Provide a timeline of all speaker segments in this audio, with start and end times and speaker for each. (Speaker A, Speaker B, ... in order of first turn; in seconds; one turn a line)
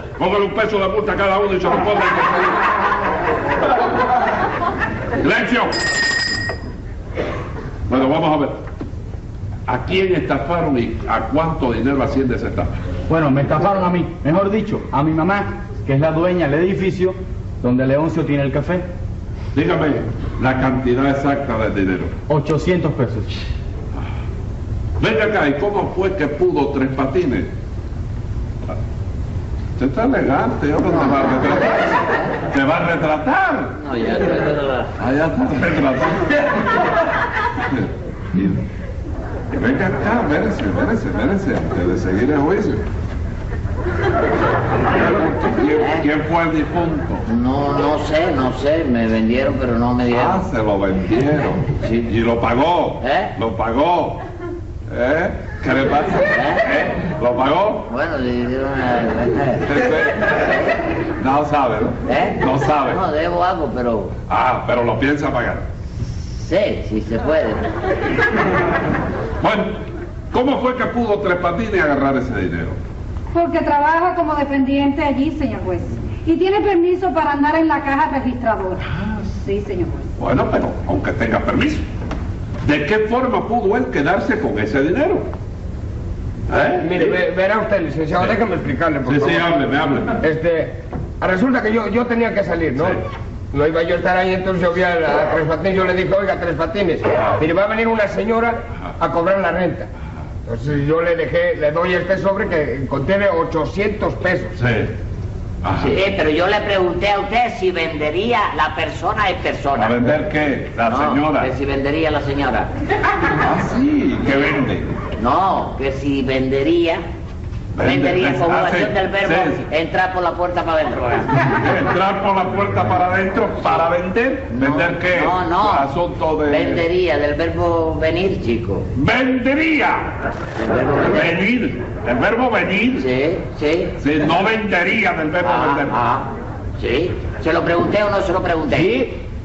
Speaker A: 0.2-2.6
Speaker A: 5.2-5.8
Speaker A: 7.9-8.6
Speaker A: 9.7-12.8
Speaker B: 13.1-18.8
Speaker A: 19.5-22.1
Speaker B: 22.3-23.3
Speaker A: 25.0-27.5
Speaker A: 29.8-31.9
Speaker C: 30.9-32.3
Speaker A: 32.5-33.7
Speaker C: 33.8-34.9
Speaker A: 35.0-36.6
Speaker A: 37.7-38.6
Speaker A: 39.5-42.8
Speaker A: 44.9-47.2
Speaker C: 45.8-46.0
Speaker C: 47.2-50.4
Speaker A: 50.1-54.2
Speaker C: 51.8-52.1
Speaker C: 53.0-53.3
Speaker A: 54.9-57.9
Speaker C: 56.3-56.6
Speaker C: 57.9-60.8
Speaker A: 59.6-60.4
Speaker A: 61.2-63.0
Speaker C: 62.0-64.1
Speaker A: 64.3-65.7
Speaker C: 66.3-67.7
Speaker A: 69.4-69.8
Speaker A: 70.3-72.8
Speaker D: 73.3-78.9
Speaker A: 78.9-79.2
Speaker D: 79.4-80.0
Speaker A: 80.2-81.8
Speaker A: 82.6-85.3
Speaker A: 86.5-87.2
Speaker E: 86.8-89.5
Speaker A: 89.0-90.2
Speaker E: 90.2-99.9
Speaker E: 100.5-104.5
Speaker A: 104.5-104.9
Speaker A: 105.6-106.0
Speaker C: 105.8-110.2
Speaker A: 109.7-111.5
Speaker C: 110.9-112.7
Speaker A: 113.4-115.0
Speaker C: 115.2-117.0
Speaker A: 117.7-119.6
Speaker C: 117.8-121.3
Speaker A: 121.4-126.8
Speaker C: 124.5-125.9
Speaker C: 126.5-128.8
Speaker A: 128.9-130.1
Speaker C: 130.6-131.3
Speaker A: 131.0-133.1
Speaker C: 133.0-134.0
Speaker A: 134.0-136.0
Speaker C: 135.4-139.1